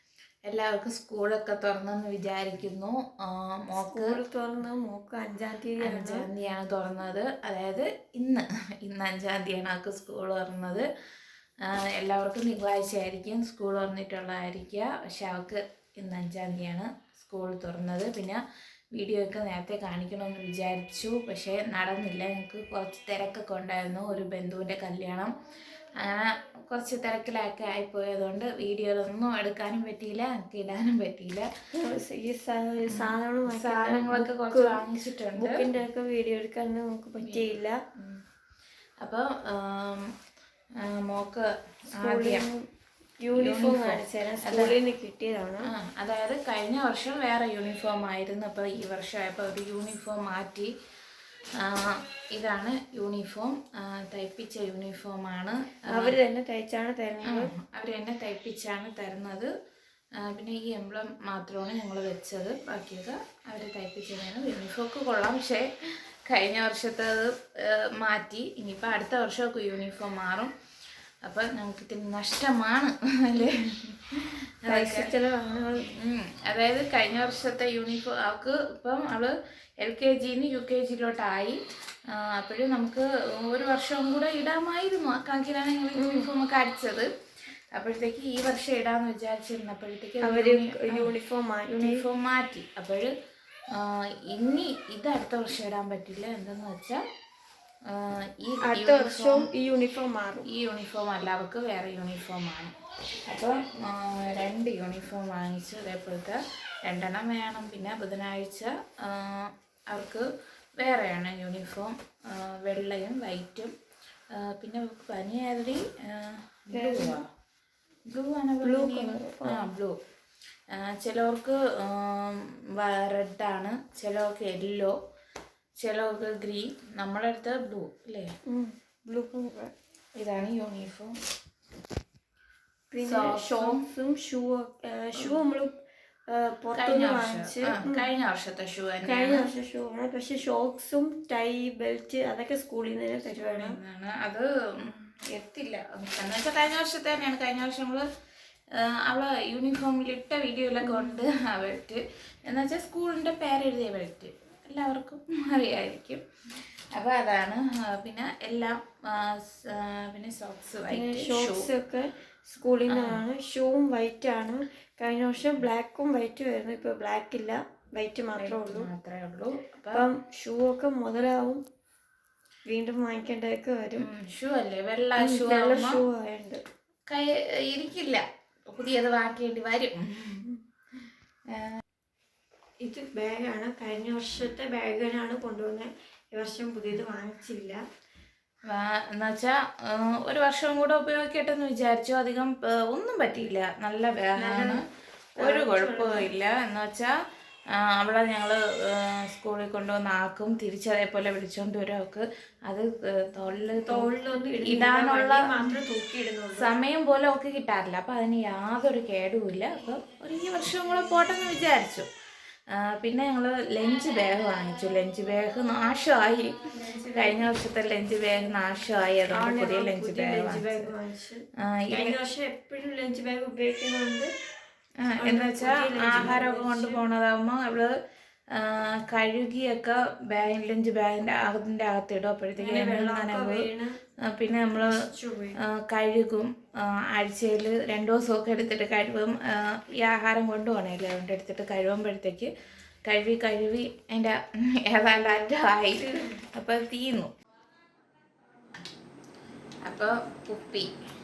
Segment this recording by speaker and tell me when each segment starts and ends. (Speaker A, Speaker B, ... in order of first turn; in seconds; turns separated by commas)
Speaker A: 0.5-4.2, Speaker B: 3.8-6.3, Speaker A: 5.8-10.8, Speaker A: 11.7-18.4, Speaker A: 18.9-25.3, Speaker A: 26.0-31.5, Speaker B: 31.7-34.8, Speaker A: 32.8-35.7, Speaker B: 35.4-37.8, Speaker A: 37.2-38.2, Speaker A: 39.0-40.1, Speaker A: 40.9-42.5, Speaker B: 42.0-42.6, Speaker B: 43.2-45.7, Speaker A: 43.3-44.7, Speaker A: 45.7-50.7, Speaker A: 51.6-56.1, Speaker B: 55.9-57.5, Speaker A: 57.2-59.5, Speaker A: 60.2-70.5, Speaker A: 71.2-75.1, Speaker B: 74.7-75.9, Speaker A: 76.0-81.6, Speaker A: 82.2-87.1, Speaker B: 85.9-86.3, Speaker A: 87.7-91.1, Speaker B: 90.2-92.0, Speaker A: 91.7-93.1, Speaker A: 93.7-97.0, Speaker A: 97.9-99.5, Speaker B: 98.6-100.5, Speaker A: 100.5-102.7, Speaker A: 103.3-110.2, Speaker A: 110.8-113.7, Speaker A: 114.3-117.2, Speaker B: 116.7-117.2, Speaker A: 118.1-119.9, Speaker B: 118.6-119.7, Speaker A: 120.7-124.9, Speaker A: 125.8-128.3, Speaker B: 128.5-129.7, Speaker A: 130.2-131.1, Speaker B: 132.9-135.7, Speaker A: 133.0-133.8, Speaker B: 136.3-138.1, Speaker A: 136.8-139.5, Speaker B: 139.1-143.8, Speaker A: 143.5-148.0, Speaker A: 148.8-156.2, Speaker B: 150.8-151.1, Speaker A: 156.9-161.7, Speaker B: 160.9-168.9, Speaker A: 162.9-163.2, Speaker A: 168.3-170.1, Speaker B: 169.9-171.6, Speaker B: 172.7-174.1, Speaker A: 174.0-176.0, Speaker B: 175.2-176.6, Speaker A: 177.1-180.4, Speaker A: 181.5-181.8, Speaker B: 182.8-187.8, Speaker A: 188.7-194.8, Speaker B: 194.4-194.8, Speaker B: 195.4-196.3, Speaker A: 195.4-197.1, Speaker A: 197.8-204.1, Speaker B: 203.8-206.7, Speaker A: 204.6-205.7, Speaker A: 206.6-212.1, Speaker A: 212.7-220.9, Speaker B: 216.8-217.4, Speaker B: 219.3-224.3, Speaker A: 221.7-222.2, Speaker A: 225.0-227.9, Speaker B: 225.2-227.0, Speaker A: 228.5-233.7, Speaker B: 232.6-234.0, Speaker A: 234.3-234.9, Speaker B: 234.8-235.6, Speaker A: 235.6-242.5, Speaker A: 243.1-247.3, Speaker B: 246.0-246.3, Speaker A: 249.8-250.9